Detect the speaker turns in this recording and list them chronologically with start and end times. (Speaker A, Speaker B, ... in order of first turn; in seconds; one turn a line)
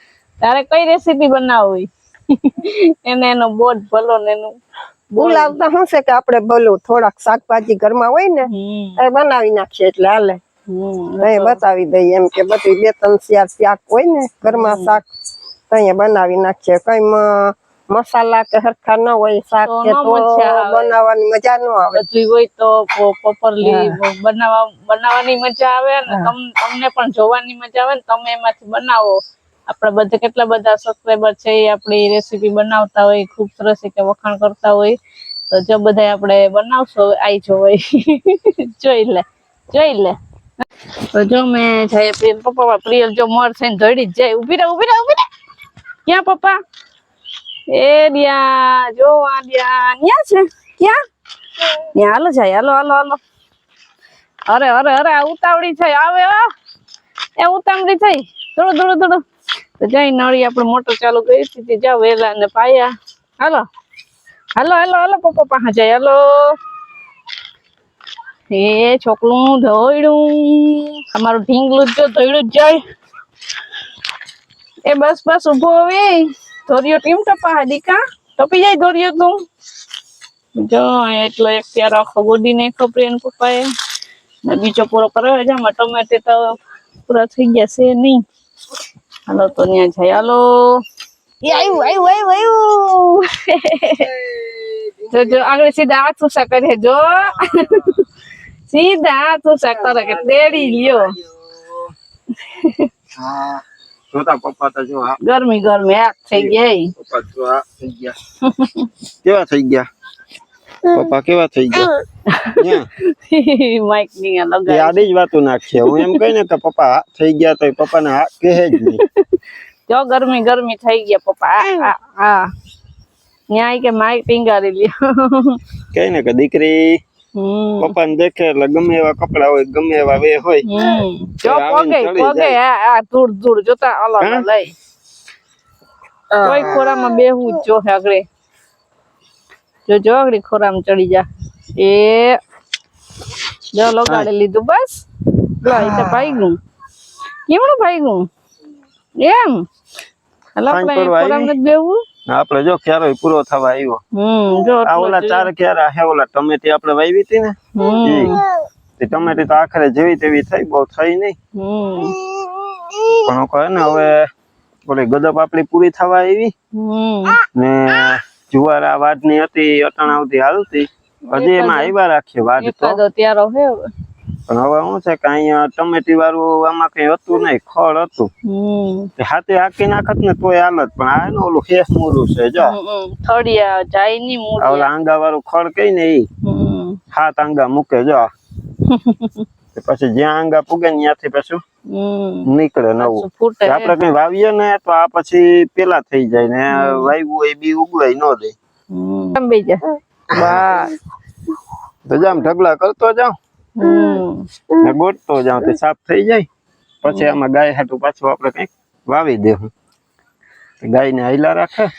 Speaker A: 0.4-4.6
Speaker A: 5.1-5.6
Speaker B: 5.2-10.4
Speaker A: 8.5-9.0
Speaker A: 10.7-11.6
Speaker B: 11.2-15.0
Speaker A: 14.4-15.0
Speaker B: 15.7-22.0
Speaker A: 19.6-21.0
Speaker A: 21.9-29.2
Speaker B: 23.6-24.0
Speaker B: 26.1-26.3
Speaker A: 29.7-35.0
Speaker A: 35.5-40.1
Speaker A: 41.1-45.2
Speaker A: 46.0-46.6
Speaker A: 47.7-51.0
Speaker A: 51.9-53.2
Speaker A: 54.5-56.4
Speaker A: 57.4-59.2
Speaker A: 59.8-63.6
Speaker A: 64.5-66.5
Speaker A: 68.5-72.8
Speaker A: 74.9-79.4
Speaker A: 80.5-83.7
Speaker A: 84.5-88.2
Speaker A: 89.3-90.8
Speaker A: 91.4-94.1
Speaker C: 94.0-95.5
Speaker A: 95.1-98.0
Speaker C: 97.4-98.0
Speaker A: 98.7-101.1
Speaker C: 99.7-101.9
Speaker A: 102.4-102.9
Speaker C: 103.1-105.2
Speaker A: 105.2-106.9
Speaker C: 106.3-108.2
Speaker A: 108.4-108.9
Speaker C: 109.2-109.9
Speaker C: 110.8-111.9
Speaker A: 112.3-115.0
Speaker C: 112.5-112.9
Speaker C: 114.7-119.0
Speaker A: 115.8-116.2
Speaker A: 118.6-122.5
Speaker A: 123.5-125.6
Speaker C: 125.9-127.0
Speaker A: 127.3-127.9
Speaker C: 127.8-130.7
Speaker A: 130.7-134.7
Speaker C: 131.4-132.6
Speaker C: 134.2-134.4
Speaker B: 136.3-136.8
Speaker A: 136.4-138.2
Speaker A: 139.9-142.4
Speaker A: 143.7-145.0
Speaker A: 145.6-146.6
Speaker A: 147.5-148.3
Speaker A: 149.2-149.6
Speaker A: 150.6-152.0
Speaker C: 150.7-151.5
Speaker C: 152.3-154.0
Speaker A: 154.1-155.5
Speaker C: 154.8-158.4
Speaker A: 157.7-158.4
Speaker C: 159.0-161.3
Speaker A: 161.5-162.2
Speaker C: 163.1-164.2
Speaker C: 164.8-166.5
Speaker A: 166.7-167.4
Speaker C: 167.5-173.0
Speaker A: 171.3-171.9
Speaker A: 172.6-173.9
Speaker C: 174.5-178.3
Speaker A: 178.4-179.1
Speaker C: 179.2-182.8
Speaker A: 182.6-184.9
Speaker C: 184.6-186.3
Speaker A: 186.4-187.0
Speaker C: 187.1-188.3
Speaker A: 188.8-189.4
Speaker C: 189.7-191.6
Speaker A: 191.9-192.5
Speaker C: 192.4-198.5
Speaker A: 193.0-193.9
Speaker A: 196.7-197.1
Speaker A: 198.9-200.9
Speaker C: 200.3-200.7
Speaker C: 202.1-203.3
Speaker A: 203.8-204.4
Speaker C: 204.8-206.5
Speaker C: 207.0-209.7
Speaker A: 207.1-207.4
Speaker C: 210.8-211.9